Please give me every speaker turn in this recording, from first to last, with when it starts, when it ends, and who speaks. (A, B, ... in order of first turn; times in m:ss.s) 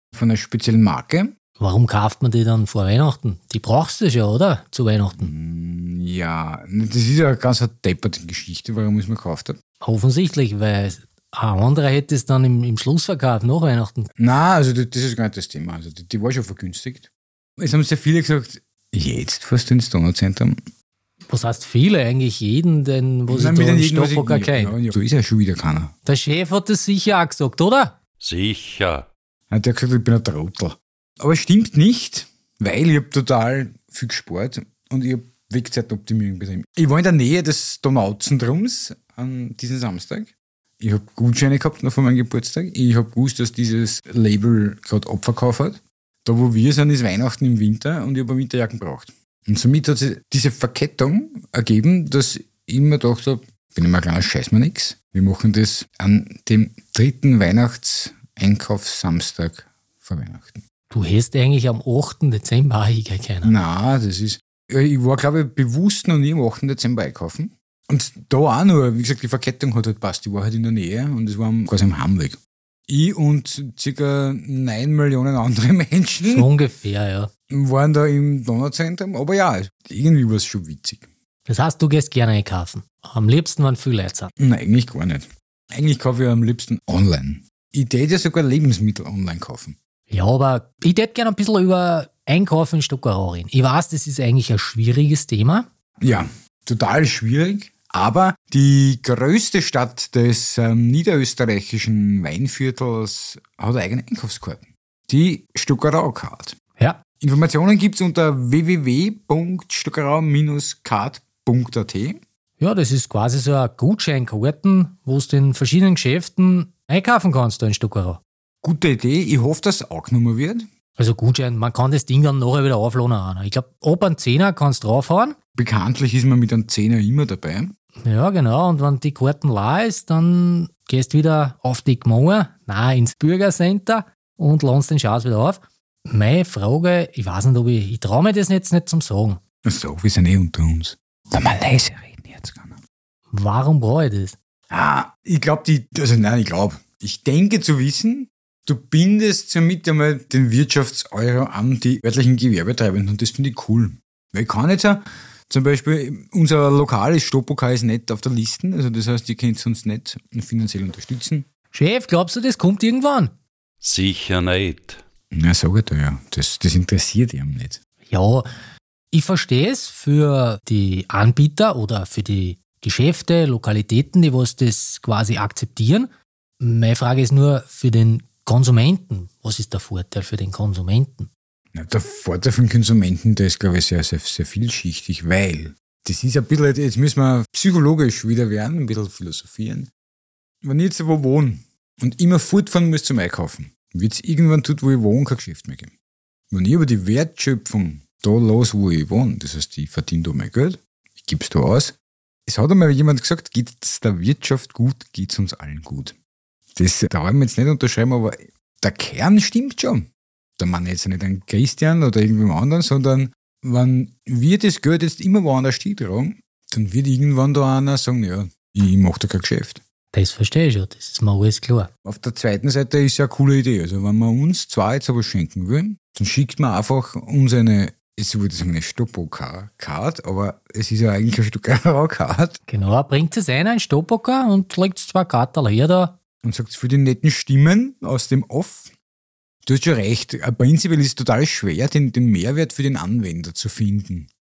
0:00.1-0:01.3 A
0:01.6-0:05.3 B
0:05.2-0:09.6 A
0:09.8-0:14.1 B
0:14.2-0:20.6 A
0:21.3-0:24.8 B
0:23.3-0:25.9 A
0:26.0-0:28.0 B
0:28.2-0:29.1 C
0:29.5-1:00.6 A
1:00.9-1:03.5 B
1:03.4-1:16.5 A
1:16.2-1:17.3 B
1:17.5-1:21.0 A
1:21.5-1:24.3 B
1:24.4-1:29.8 A
1:30.1-1:35.6 B
1:36.0-1:46.6 A
1:47.2-1:52.2 A
1:52.6-1:58.2 B
1:58.6-2:00.6 A
2:01.0-2:05.4 B
2:05.6-2:07.7 A
2:08.0-2:19.4 B
2:19.6-2:22.8 A
2:23.3-2:24.4 B
2:24.7-2:41.5 A
2:41.7-2:43.3 B
2:43.8-2:45.0 C
2:45.3-2:47.8 A
2:48.1-2:48.5 B
2:49.1-3:01.3 B
3:01.7-3:09.9 A
3:10.6-3:15.9 A
3:16.5-3:26.1 A
3:26.8-3:30.1 A
3:30.6-3:39.8 A
3:40.1-3:41.9 B
3:42.0-3:52.6 A
3:52.7-3:56.2 B
3:56.4-3:58.9 A
3:59.6-4:04.3 A